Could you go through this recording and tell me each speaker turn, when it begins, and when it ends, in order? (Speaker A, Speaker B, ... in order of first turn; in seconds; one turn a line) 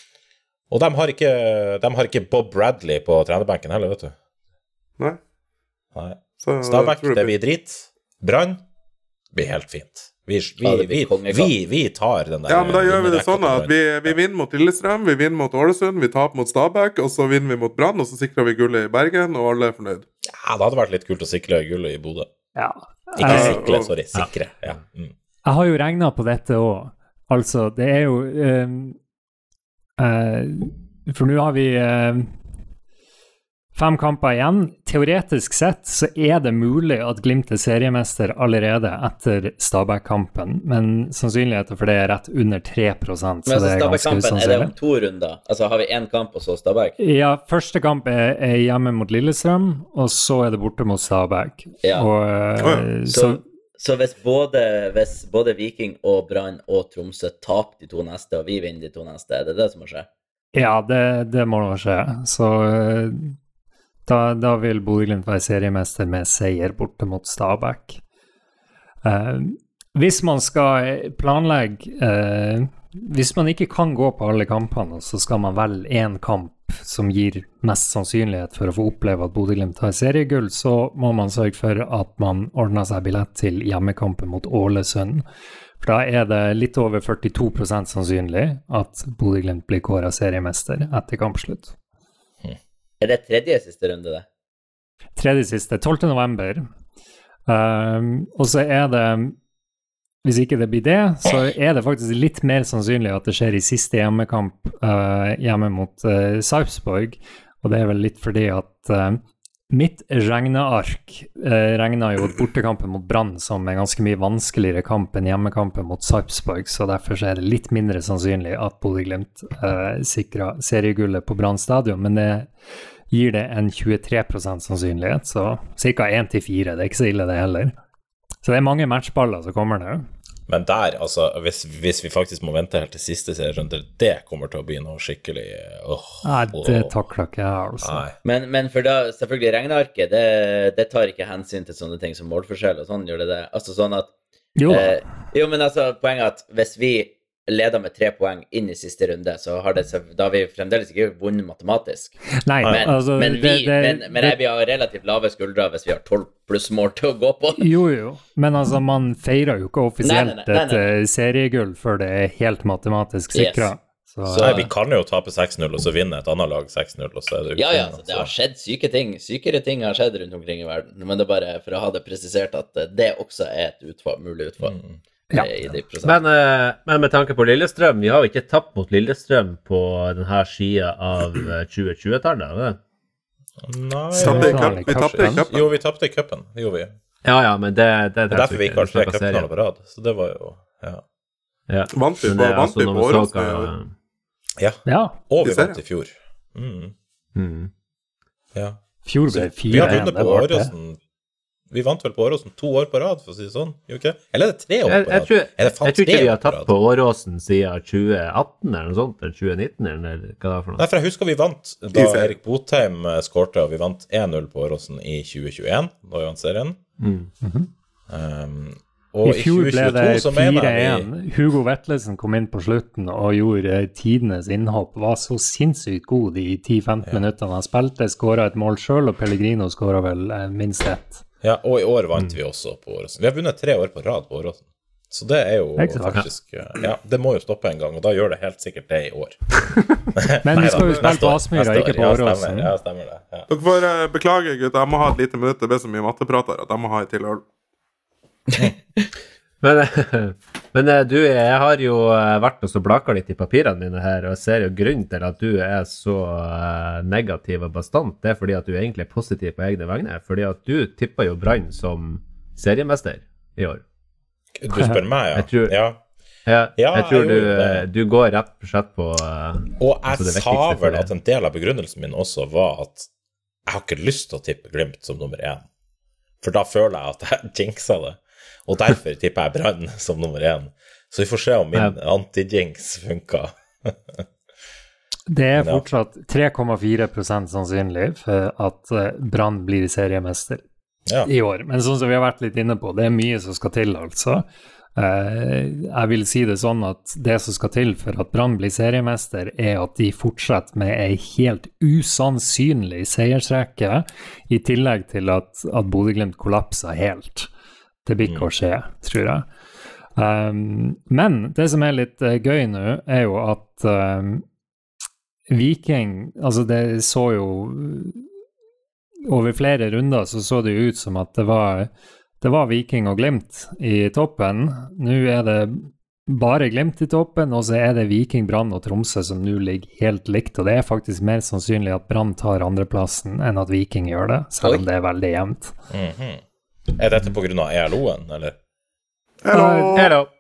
Speaker A: 0.7-4.2
Speaker A: 6.0-8.6
Speaker B: 6.4-7.3
Speaker A: 9.3-14.1
Speaker C: 10.6-11.5
Speaker B: 12.5-20.1
Speaker A: 20.4-22.3
Speaker D: 22.6-23.6
Speaker A: 23.1-25.1
Speaker B: 23.2-23.9
Speaker D: 25.4-29.0
Speaker D: 30.0-32.3
Speaker D: 33.8-44.7
Speaker C: 43.5-47.0
Speaker D: 47.0-53.4
Speaker C: 51.8-52.1
Speaker B: 52.6-52.9
Speaker C: 53.1-60.1
Speaker D: 60.5-63.3
Speaker D: 64.1-68.0
Speaker D: 69.0-85.2
Speaker D: 85.8-91.8
Speaker C: 93.0-94.2
Speaker D: 95.2-96.7
Speaker D: 97.5-99.4
Speaker D: 100.2-122.5
Speaker D: 123.1-127.7
Speaker D: 128.4-130.1
Speaker A: 130.5-136.9
Speaker D: 136.2-138.0
Speaker A: 137.8-138.2
Speaker C: 138.2-144.1
Speaker D: 144.6-145.0
Speaker C: 144.7-152.2
Speaker D: 152.4-154.4
Speaker A: 152.6-152.9
Speaker C: 152.7-157.7
Speaker D: 157.6-164.7
Speaker C: 160.0-160.9
Speaker C: 163.3-163.7
Speaker C: 164.3-164.7
Speaker A: 164.4-168.3
Speaker C: 167.6-174.8
Speaker A: 174.6-175.0
Speaker C: 175.3-176.2
Speaker E: 176.0-182.8
Speaker A: 183.6-186.9
Speaker D: 184.1-185.5
Speaker B: 184.2-185.7
Speaker E: 187.2-189.5
Speaker A: 188.3-191.0
Speaker E: 191.7-193.9
Speaker B: 191.9-193.7
Speaker A: 194.6-196.9
Speaker D: 194.8-195.2
Speaker B: 195.4-195.8
Speaker E: 197.3-197.7
Speaker A: 198.6-201.0
Speaker D: 199.0-200.7
Speaker E: 199.8-200.0
Speaker A: 201.7-206.7
Speaker E: 204.8-210.9
Speaker A: 210.8-216.8
Speaker B: 211.9-212.4
Speaker E: 217.0-217.3
Speaker D: 217.4-217.7
Speaker A: 218.1-221.1
Speaker D: 219.2-231.2
Speaker A: 231.4-243.5
Speaker D: 235.8-236.3
Speaker D: 240.4-242.7
Speaker B: 240.7-241.1
Speaker B: 243.5-247.4
Speaker C: 248.5-249.1
Speaker E: 249.6-263.8
Speaker A: 264.6-266.0
Speaker D: 264.7-265.0
Speaker E: 265.3-265.8
Speaker E: 266.5-271.1
Speaker A: 266.8-267.9
Speaker A: 269.8-273.1
Speaker A: 273.7-275.6
Speaker A: 276.4-284.2
Speaker D: 285.3-290.6
Speaker A: 285.6-285.9
Speaker D: 291.2-294.4
Speaker D: 295.0-307.5
Speaker D: 308.1-309.5
Speaker D: 310.2-314.4
Speaker D: 315.5-318.2
Speaker D: 319.3-321.9
Speaker D: 322.4-335.8
Speaker A: 335.9-336.4
Speaker A: 336.9-338.6
Speaker B: 339.4-340.1
Speaker D: 339.5-340.1
Speaker E: 339.9-340.3